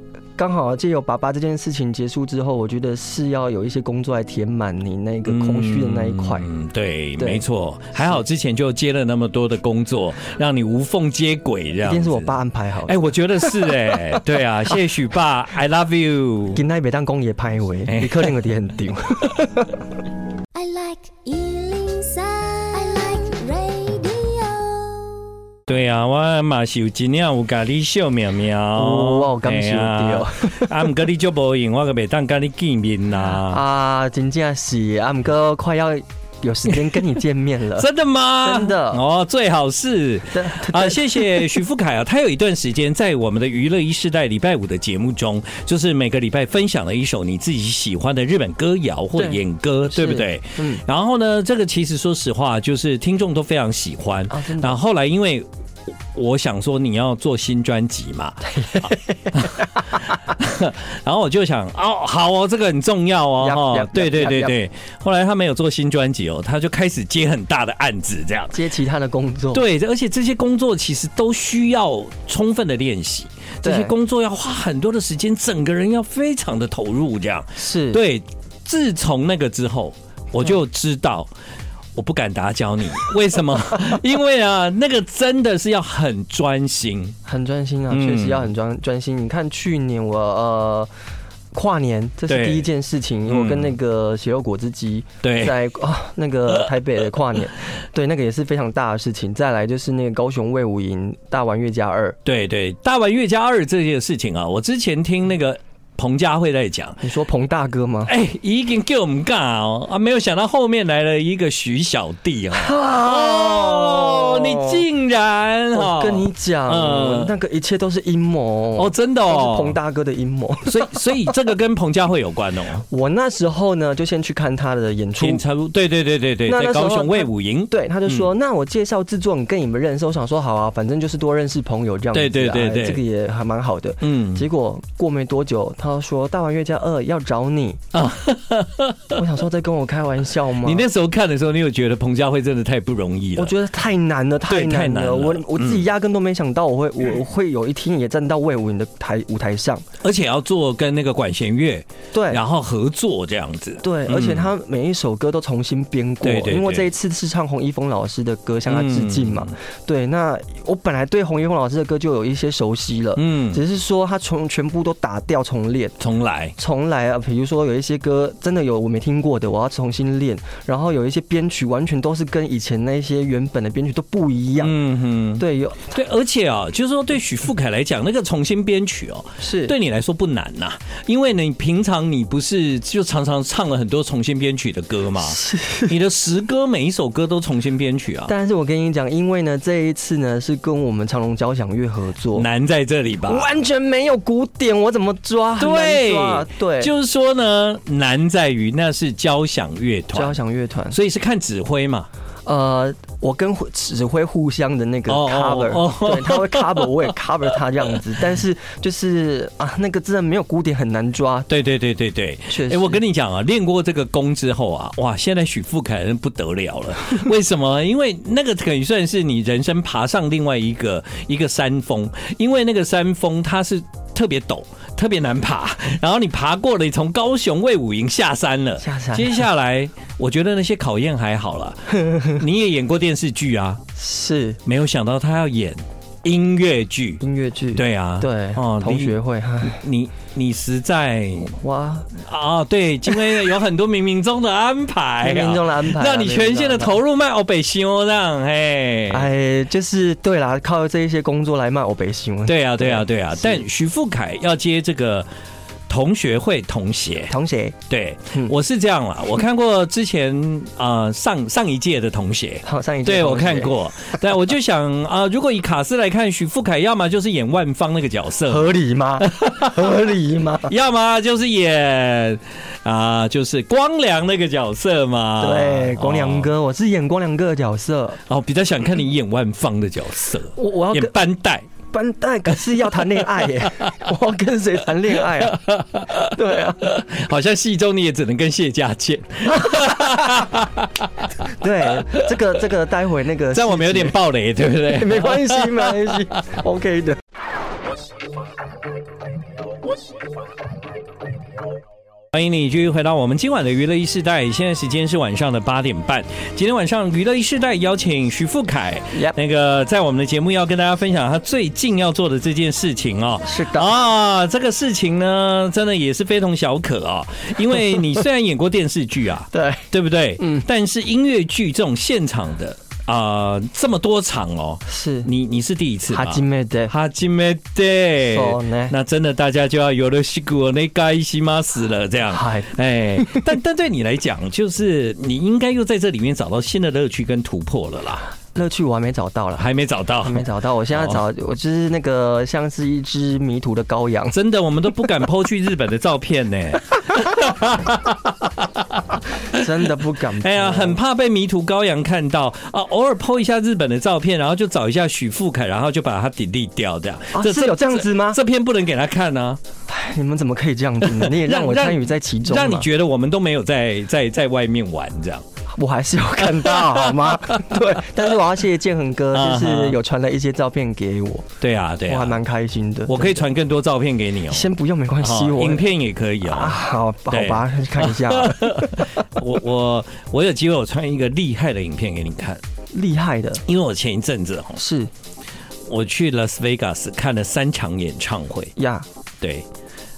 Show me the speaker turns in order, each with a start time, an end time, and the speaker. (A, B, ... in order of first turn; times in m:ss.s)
0:00.4-0:06.5 A
0:05.2-0:12.3 B
0:07.2-0:07.4 A
0:11.8-0:14.0 A
0:12.8-0:16.6 B
0:16.6-0:19.7 A
0:17.9-0:18.4 B
0:20.5-0:25.2 C
0:25.7-0:33.6 B
0:28.7-0:30.9 A
0:33.4-0:37.9 A
0:37.8-0:55.5 B
0:38.4-0:39.0 A
0:40.3-0:41.6 A
0:49.9-0:50.8 A
0:54.3-0:54.8 A
0:56.1-1:08.6 B
0:58.6-0:58.9 A
1:03.4-1:04.5 A
1:08.5-1:09.6 A
1:09.5-1:21.3 B
1:13.6-1:13.9 A
1:17.6-1:18.0 A
1:22.0-1:27.2 B
1:27.2-1:30.9 A
1:27.9-1:28.5 B
1:31.5-1:42.2 A
1:32.3-1:32.7 B
1:33.3-1:33.7 B
1:35.2-1:35.6 B
1:42.2-1:47.0 B
1:47.0-1:48.1 A
1:48.0-1:57.3 B
1:52.5-1:54.8 A
1:55.7-2:01.3 A
1:58.8-1:59.8 B
2:00.6-2:02.8 B
2:02.9-2:05.4 A
2:05.2-2:08.3 B
2:06.5-2:17.8 A
2:12.1-2:13.0 B
2:14.0-2:14.4 B
2:17.9-2:19.2 B
2:19.1-2:20.8 A
2:20.6-2:23.5 B
2:23.4-2:29.8 A
2:24.5-2:25.8 B
2:30.0-2:34.5 B
2:32.1-2:32.4 A
2:33.8-2:45.9 A
2:36.2-2:36.9 B
2:38.7-2:39.5 B
2:43.2-2:43.6 B
2:46.0-2:46.5 B
2:46.6-2:54.7 A
2:54.6-3:08.3 B
2:55.4-2:56.0 A
2:59.4-2:59.7 A
3:05.3-3:05.9 A
3:08.3-3:12.5 A
3:12.3-3:13.5 B
3:13.2-3:16.9 A
3:15.6-3:20.4 B
3:20.1-3:21.0 A
3:20.9-3:22.1 B
3:22.4-3:31.5 A
3:25.1-3:27.1 B
3:31.5-3:53.8 B
3:32.5-3:33.0 A
3:48.8-3:49.4 A
3:54.0-3:54.6 A
3:54.6-3:57.2 B
3:57.2-3:59.8 A
3:57.7-4:01.6 B
4:01.6-4:02.1 A
4:02.1-4:09.3 B
4:03.1-4:03.4 A
4:05.2-4:07.0 A
4:09.1-4:13.6 A
4:12.4-4:15.3 B
4:15.9-4:17.3 B
4:17.3-4:17.8 A
4:17.9-4:30.1 B
4:22.6-4:23.8 A
4:28.5-4:30.7 A
4:30.6-4:36.5 B
4:35.4-4:38.2 A
4:38.3-4:41.7 B
4:40.5-4:41.2 A
4:41.9-4:45.6 A
4:43.2-4:44.0 B
4:45.2-4:52.3 B
4:46.2-4:46.8 A
4:49.6-4:50.4 A
4:51.4-4:54.2 A
4:53.5-4:56.3 B
4:54.9-4:57.2 A
5:02.3-5:38.3 B
5:13.4-5:13.9 A
5:19.5-5:19.9 A
5:20.4-5:20.6 A
5:24.9-5:25.3 A
5:26.1-5:26.9 A
5:28.2-5:28.9 A
5:32.3-5:33.4 A
5:38.5-5:39.6 A
5:39.6-5:41.2 B
5:40.2-5:44.4 A
5:44.3-5:59.6 B
5:49.5-5:51.0 A
5:57.3-5:58.4 A
5:59.9-6:02.9 A
6:01.0-6:05.4 B
6:05.7-6:11.5 A
6:06.4-6:08.0 B
6:09.3-6:10.0 B
6:11.6-6:12.4 B
6:12.1-6:13.4 A
6:13.1-6:14.7 B
6:14.5-6:15.8 A
6:15.2-6:22.6 B
6:16.4-6:19.2 A
6:22.9-6:23.6 A
6:23.6-6:24.8 B
6:24.8-6:25.1 A
6:25.9-6:28.7 B
6:28.8-6:29.1 A
6:29.4-6:29.6 B